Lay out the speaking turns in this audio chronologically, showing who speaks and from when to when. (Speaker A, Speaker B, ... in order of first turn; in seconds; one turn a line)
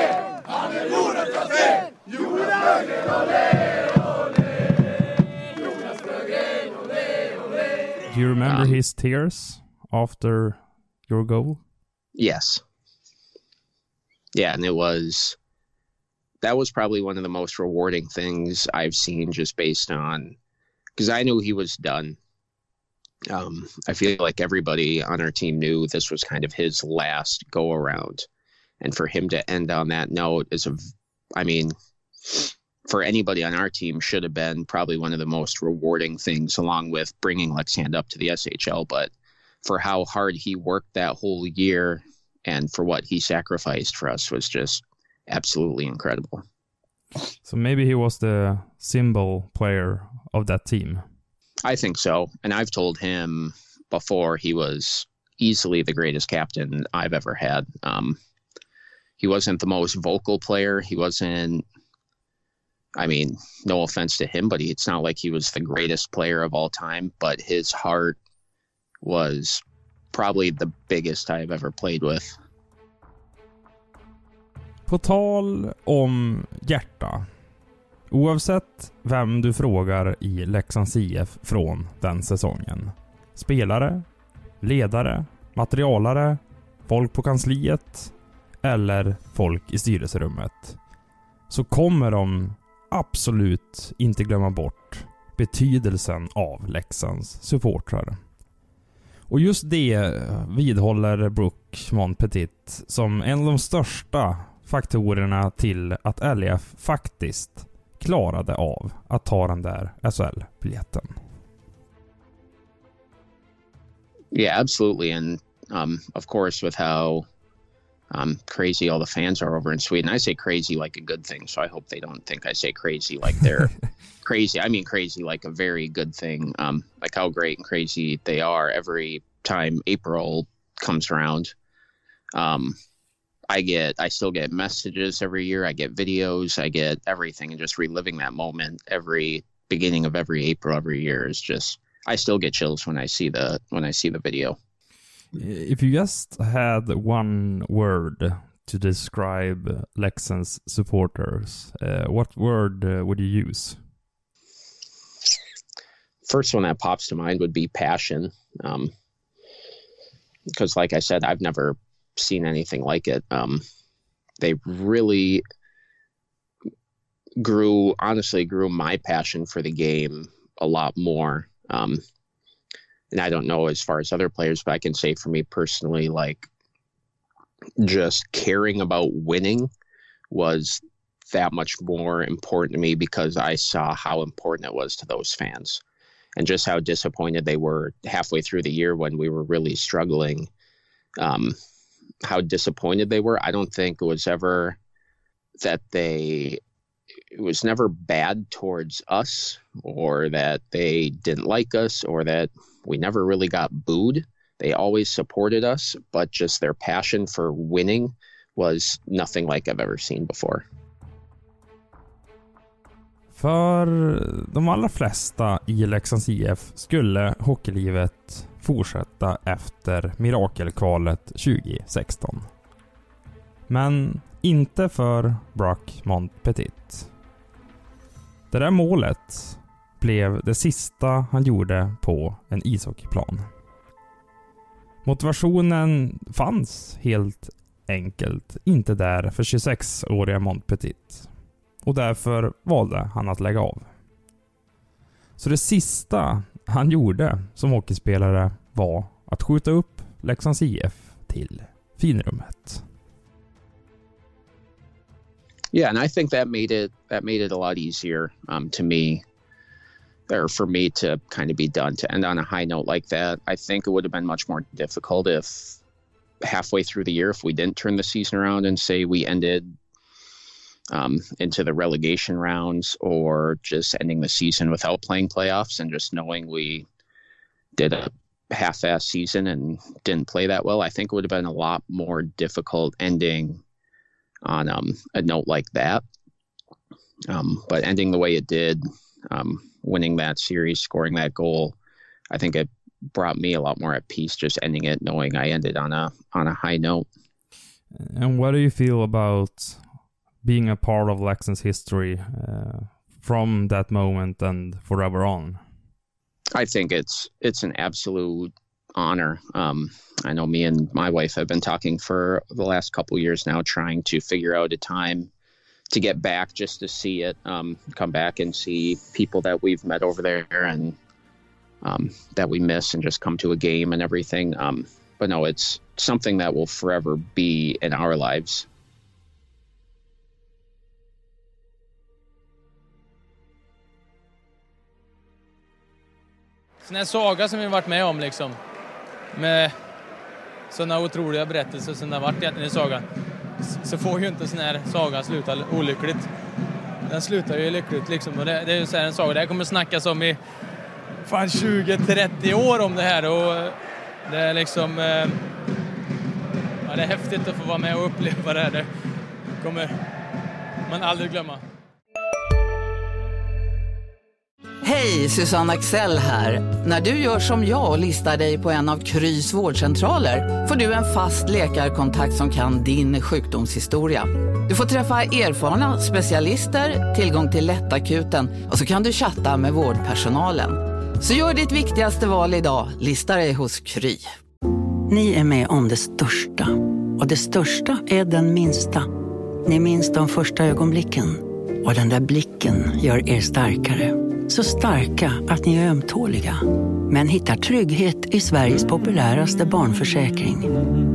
Speaker A: 8.1-11.6
Speaker B: 8.4-8.8
Speaker B: 12.2-12.6
Speaker B: 14.3-15.4
Speaker B: 16.4-20.4
Speaker B: 21.0-22.2
Speaker B: 23.3-28.3
Speaker B: 28.8-30.8
Speaker B: 31.3-39.1
Speaker B: 39.6-46.4
Speaker A: 47.5-51.0
Speaker B: 51.6-58.2
Speaker B: 59.2-61.6
Speaker B: 63.0-68.2
Speaker B: 69.0-69.6
Speaker B: 70.1-72.3
Speaker A: 74.9-77.3
Speaker A: 78.1-84.1
Speaker A: 84.6-88.1
Speaker A: 88.6-90.8
Speaker A: 91.5-98.2
Speaker A: 99.3-111.2
Speaker B: 114.3-117.3
Speaker B: 118.1-131.5
Speaker B: 132.3-132.8
Speaker B: 133.5-144.6
Speaker A: 145.3-153.8
Speaker B: 156.3-158.9
Speaker B: 160.5-163.6
Speaker B: 164.4-165.4
Speaker B: 167.4-172.0
Speaker B: 173.1-176.5
Speaker B: 177.8-179.7
Speaker B: 180.3-185.8
Speaker B: 186.4-190.5
Speaker B: 191.2-191.6
Speaker B: 192.2-194.8
Speaker B: 195.6-196.6
Speaker B: 197.3-210.7
Speaker A: 213.3-222.5
Speaker A: 223.7-227.1
Speaker A: 228.5-233.5
Speaker A: 235.0-241.3
Speaker A: 241.8-243.9
Speaker A: 245.4-252.8
Speaker B: 255.7-259.2
Speaker B: 260.3-265.8
Speaker B: 266.4-269.7
Speaker B: 270.9-276.9
Speaker B: 277.8-283.6
Speaker B: 284.4-286.0
Speaker B: 287.3-291.8
Speaker B: 292.3-297.1
Speaker A: 297.9-299.8
Speaker A: 300.4-305.6
Speaker B: 306.5-315.3
Speaker B: 315.9-321.0
Speaker B: 321.8-328.7
Speaker C: 336.8-338.6
Speaker C: 339.3-339.7
Speaker C: 340.7-343.1
Speaker C: 343.6-346.3
Speaker C: 347.1-350.4
Speaker C: 351.3-353.8
Speaker C: 354.3-355.4
Speaker C: 356.9-358.9
Speaker C: 359.6-359.9
Speaker C: 360.9-361.6
Speaker D: 364.8-384.3
Speaker E: 385.1-389.1
Speaker E: 389.7-400.7